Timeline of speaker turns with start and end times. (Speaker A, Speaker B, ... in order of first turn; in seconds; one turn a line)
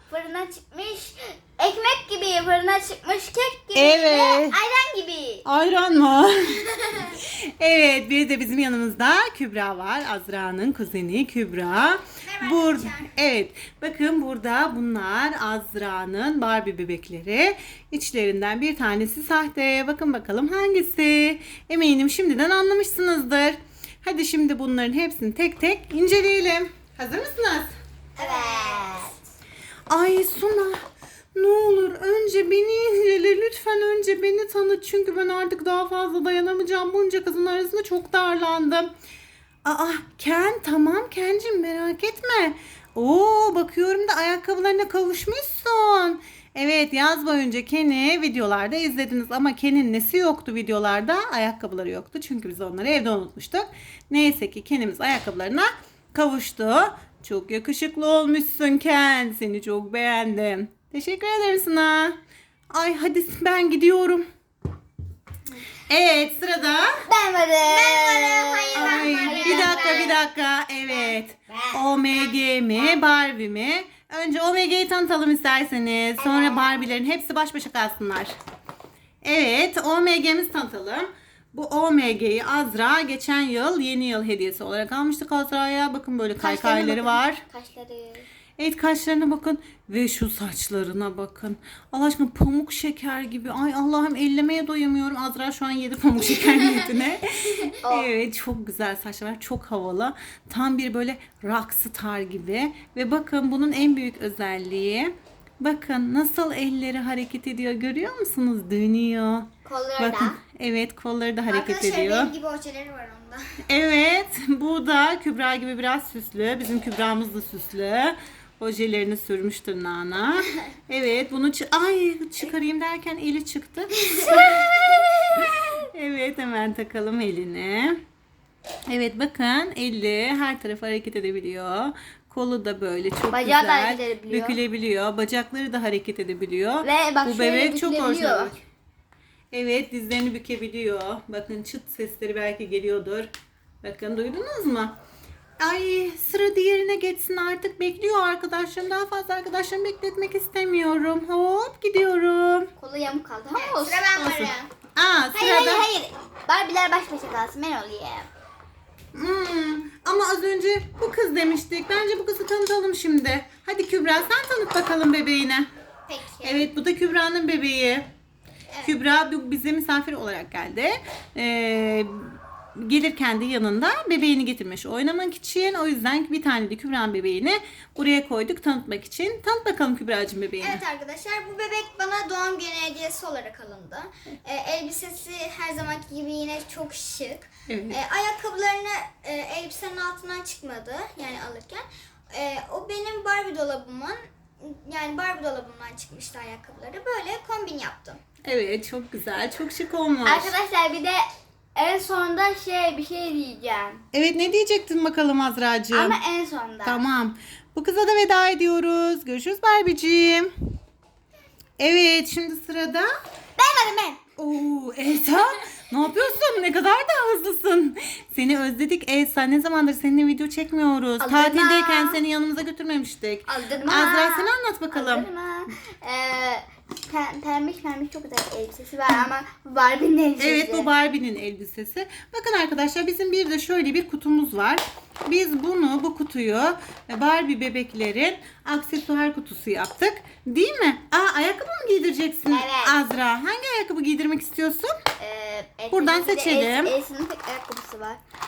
Speaker A: 0.1-5.5
Speaker B: 3.8-4.6
Speaker B: 5.5-27.8
Speaker C: 12.2-13.1
Speaker A: 28.2-29.2
Speaker C: 28.2-29.0
Speaker B: 29.9-30.8
Speaker B: 31.4-38.9
Speaker B: 39.6-62.2
Speaker B: 62.7-64.3
Speaker B: 65.9-67.0
Speaker A: 67.0-70.2
Speaker C: 67.7-70.1
Speaker B: 68.8-78.3
Speaker A: 71.5-71.8
Speaker A: 76.2-76.8
Speaker B: 79.2-87.4
Speaker A: 86.4-88.3
Speaker B: 88.6-112.3
Speaker A: 97.6-98.1
Speaker A: 109.7-110.4
Speaker C: 111.5-113.4
Speaker B: 113.7-128.0
Speaker A: 124.2-125.8
Speaker B: 128.9-138.6
Speaker A: 133.3-134.6
Speaker A: 136.8-138.6
Speaker B: 139.5-143.3
Speaker B: 143.8-145.0
Speaker B: 145.6-152.7
Speaker A: 152.8-154.1
Speaker C: 153.6-154.7
Speaker B: 154.2-155.9
Speaker A: 155.3-158.3
Speaker B: 159.1-165.7
Speaker A: 166.1-166.7
Speaker B: 166.4-168.1
Speaker C: 168.7-169.0
Speaker B: 168.8-180.8
Speaker C: 180.6-198.2
Speaker B: 187.7-188.0
Speaker B: 198.4-200.5
Speaker A: 200.2-201.2
Speaker A: 201.8-204.0
Speaker B: 204.1-206.2
Speaker A: 205.9-207.0
Speaker B: 206.8-210.5
Speaker B: 211.8-213.1
Speaker A: 213.6-214.2
Speaker B: 214.4-225.3
Speaker A: 221.2-222.2
Speaker A: 223.5-230.9
Speaker B: 230.4-245.0
Speaker A: 242.5-243.0
Speaker A: 245.2-248.2
Speaker B: 245.9-246.9